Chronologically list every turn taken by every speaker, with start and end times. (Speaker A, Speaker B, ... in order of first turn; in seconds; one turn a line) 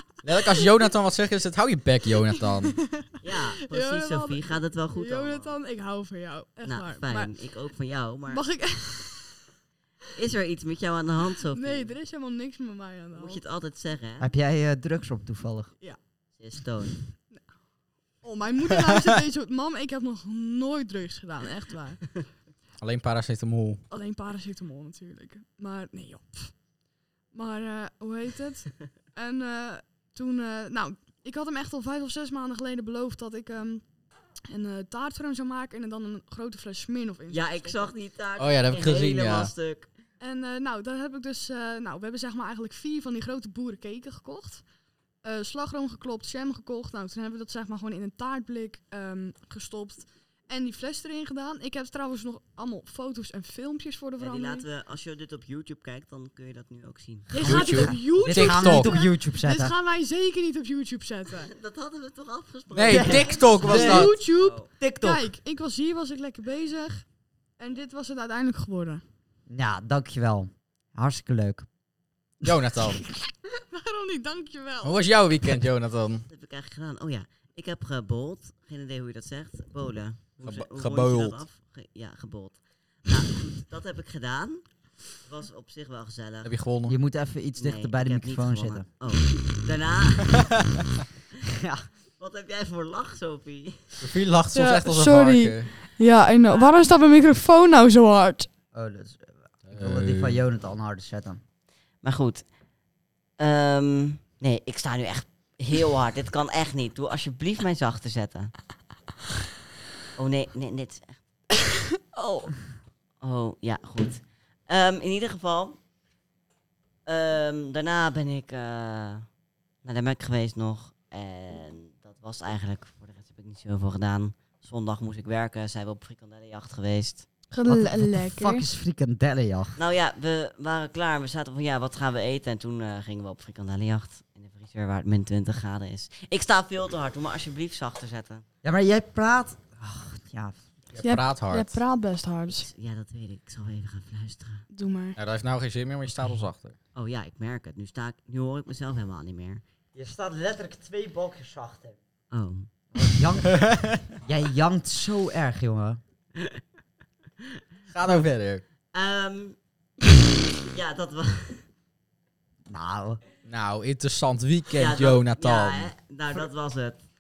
Speaker A: 0.2-2.8
Speaker B: 2.6-7.3
Speaker C: 3.2-5.5
Speaker C: 6.7-8.4
Speaker B: 8.3-9.4
Speaker C: 10.1-11.9
Speaker B: 11.5-13.4
Speaker C: 13.2-14.3
Speaker D: 14.2-15.7
Speaker C: 16.4-17.0
Speaker B: 18.2-22.1
Speaker A: 22.8-23.8
Speaker B: 23.9-26.5
Speaker B: 27.3-33.8
Speaker B: 34.5-37.9
Speaker C: 37.3-39.9
Speaker A: 38.4-39.5
Speaker B: 40.2-44.6
Speaker B: 45.2-54.7
Speaker C: 54.2-57.9
Speaker B: 57.3-61.5
Speaker A: 57.4-59.0
Speaker D: 57.5-59.7
Speaker C: 61.4-64.7
Speaker A: 62.7-64.1
Speaker D: 62.9-64.1
Speaker B: 63.6-67.0
Speaker D: 64.8-65.2
Speaker B: 67.6-69.0
Speaker D: 69.5-71.7
Speaker A: 72.4-73.0
Speaker B: 73.2-75.0
Speaker A: 74.8-76.3
Speaker C: 76.3-84.7
Speaker A: 80.4-81.4
Speaker C: 85.2-86.5
Speaker A: 86.4-87.0
Speaker D: 86.9-88.9
Speaker C: 87.6-90.7
Speaker D: 91.4-91.8
Speaker C: 92.2-94.1
Speaker A: 94.0-95.7
Speaker B: 94.5-98.5
Speaker D: 98.7-101.4
Speaker A: 99.7-100.4
Speaker C: 102.0-102.5
Speaker C: 103.4-108.5
Speaker C: 110.2-111.2
Speaker B: 112.1-112.5
Speaker C: 113.2-115.8
Speaker C: 117.1-119.3
Speaker C: 119.8-127.3
Speaker B: 127.5-128.7
Speaker D: 127.7-129.8
Speaker C: 129.8-138.4
Speaker D: 138.6-140.7
Speaker A: 140.9-141.8
Speaker B: 141.0-142.7
Speaker C: 142.5-144.7
Speaker B: 144.7-145.2
Speaker A: 145.2-146.8
Speaker C: 146.9-149.6
Speaker D: 149.9-152.0
Speaker C: 152.3-152.7
Speaker D: 152.9-156.0
Speaker A: 153.5-154.0
Speaker C: 156.4-156.6
Speaker A: 157.9-158.6
Speaker C: 158.9-159.6
Speaker C: 160.7-161.7
Speaker D: 162.7-163.2
Speaker A: 163.5-165.9
Speaker C: 164.7-167.0